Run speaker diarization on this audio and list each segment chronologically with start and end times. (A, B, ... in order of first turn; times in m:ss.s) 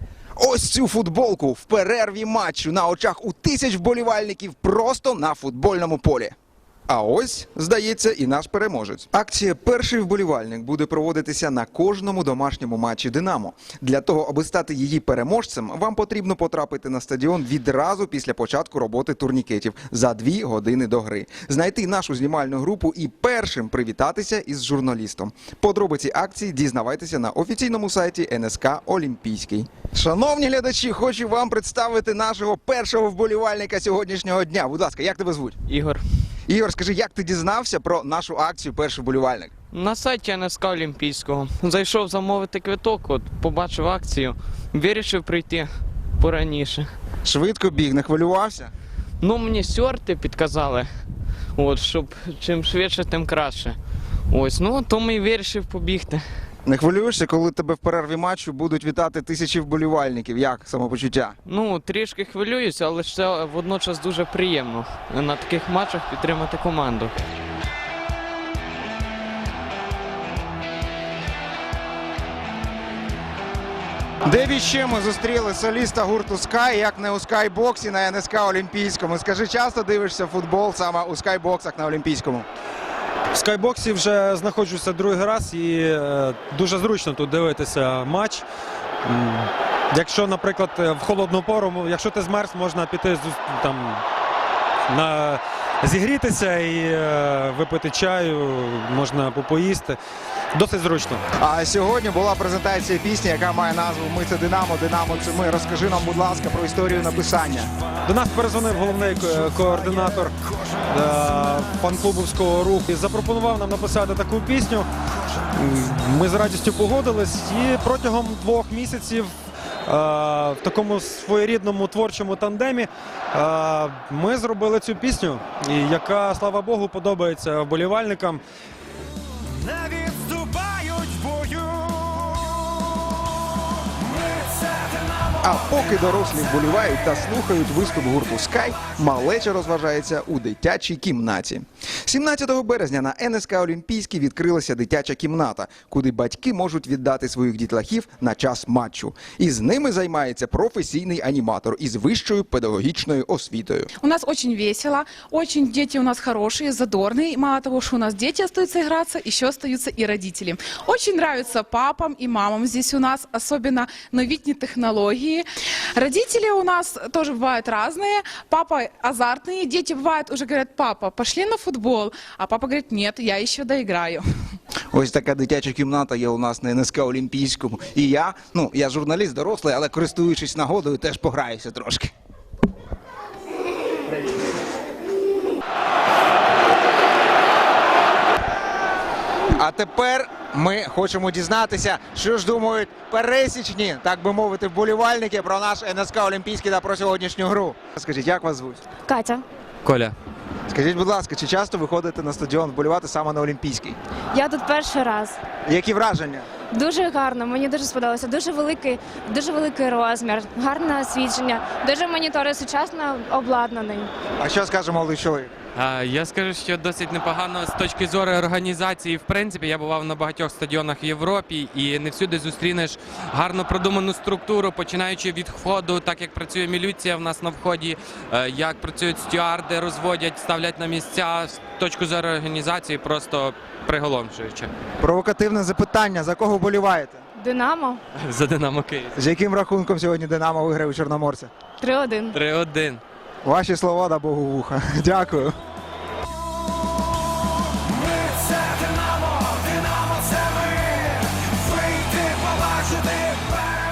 0:00.4-0:06.3 A
0:06.9-0:35.6 A
0:35.7-0:36.0 B
0:36.5-0:39.5 A
0:39.7-0:46.9 B
0:47.2-0:48.7 A
0:49.2-0:50.9 B
0:51.6-0:53.8 B
0:54.3-0:56.2 B
0:56.6-1:01.4 A
1:01.4-1:07.3 B
1:14.2-1:22.5 A
1:23.3-1:28.4 C
1:29.0-1:34.0 C
1:34.9-1:40.0 C
1:40.5-1:41.2 C
1:41.4-1:47.7 A
1:48.0-1:54.9 C
1:55.6-1:59.3 C
1:59.8-2:08.4 C
2:09.4-2:12.7 C
2:15.4-2:33.9 A
2:34.0-2:45.4 D
2:46.0-2:54.2 D
2:54.9-3:02.1 A
3:09.5-3:18.8 A
3:19.0-3:19.4 E
3:19.8-3:20.1 F
3:20.7-3:24.0 A
3:24.3-3:25.4 E
3:25.6-3:26.5 A
3:26.7-3:34.1 E
3:34.4-3:35.5 A
3:35.8-3:54.7 F
3:55.0-3:57.2 A
3:57.4-3:58.0 E
3:58.1-3:59.2 F
3:59.2-4:01.5 A
4:01.8-4:02.4 E
4:02.3-4:03.0 F
4:03.4-4:05.5 A
4:10.4-4:10.9 A
4:11.8-4:13.2 A